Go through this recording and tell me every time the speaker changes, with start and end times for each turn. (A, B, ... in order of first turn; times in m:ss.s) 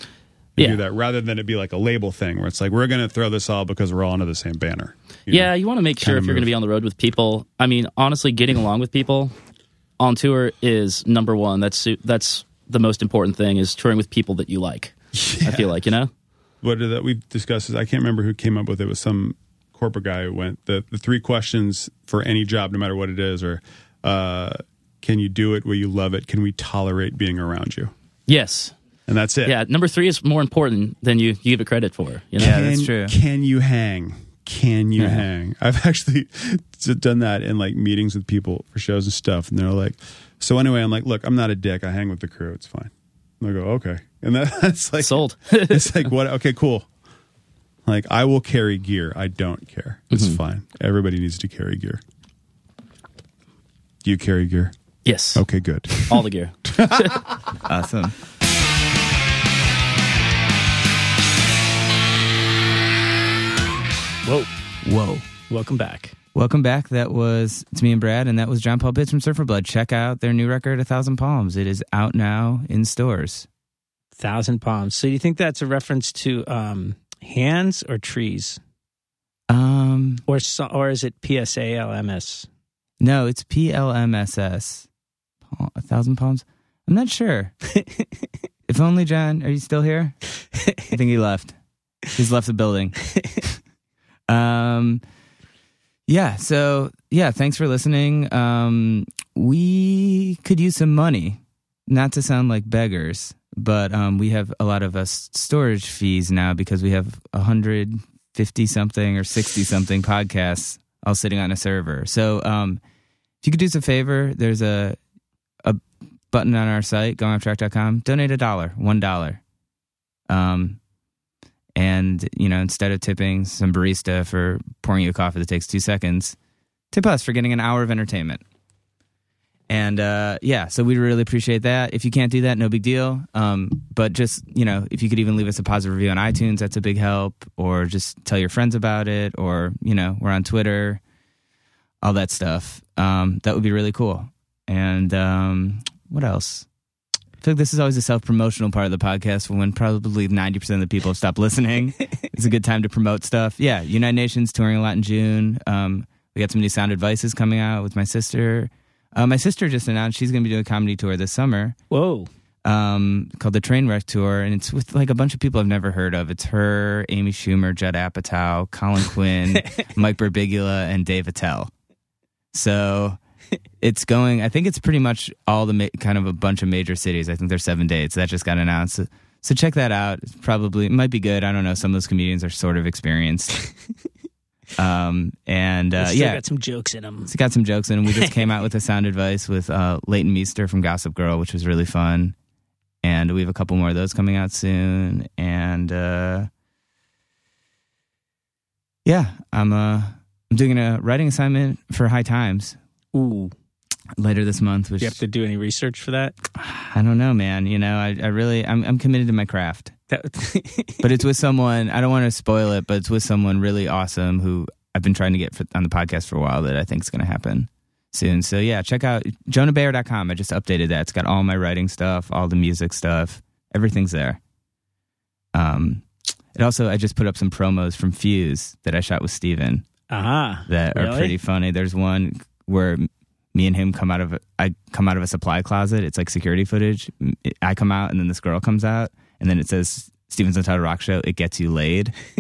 0:00.6-0:06.5 A
0:05.3-0:09.3 B
0:10.0-0:16.1 B
0:15.2-0:15.7 A
0:16.6-0:27.9 A
0:28.3-0:28.8 B
0:29.1-0:29.6 A
0:29.4-0:32.6 B
0:32.4-0:46.9 A
0:32.4-0:33.1 C
0:35.0-0:35.2 B
0:45.0-0:46.1 B
0:47.8-0:52.0 A
0:50.1-0:50.4 B
0:54.0-0:54.7 A
0:55.0-0:55.4 B
0:55.4-0:57.4 A
0:56.1-0:57.2 B
0:57.6-0:58.2 C
1:04.8-1:05.3 C
1:05.5-1:06.2 D
1:06.3-1:13.5 C
1:14.2-1:18.6 D
1:19.5-1:20.2 C
1:20.3-1:22.5 D
1:23.0-1:24.9 C
1:25.5-1:27.5 C
1:28.7-1:30.2 C
1:30.8-1:31.6 C
1:32.1-1:33.1 C
1:34.3-1:35.0 C
1:36.1-1:52.8 C
1:53.4-1:55.0 C
1:55.6-1:59.4 C
2:00.3-2:00.8 C
2:01.8-2:06.4 C
2:06.9-2:08.4 C
2:09.7-2:21.0 C
2:22.0-2:26.7 C
2:27.4-2:41.8 C
2:41.9-2:42.3 D
2:42.6-2:51.7 C
2:52.5-2:53.2 C
2:53.8-3:03.6 C
3:04.8-3:06.4 C
3:06.0-3:07.3 D
3:07.3-3:12.4 C
3:08.1-3:08.3 D
3:13.0-3:16.5 C
3:19.0-3:22.8 C
3:23.1-3:23.5 D
3:24.2-3:25.2 C
3:25.0-3:26.4 D
3:26.6-3:29.9 C
3:30.1-3:31.0 D
3:31.0-3:44.4 C
3:45.5-3:49.9 C
3:50.1-3:51.4 D
3:50.7-4:02.2 C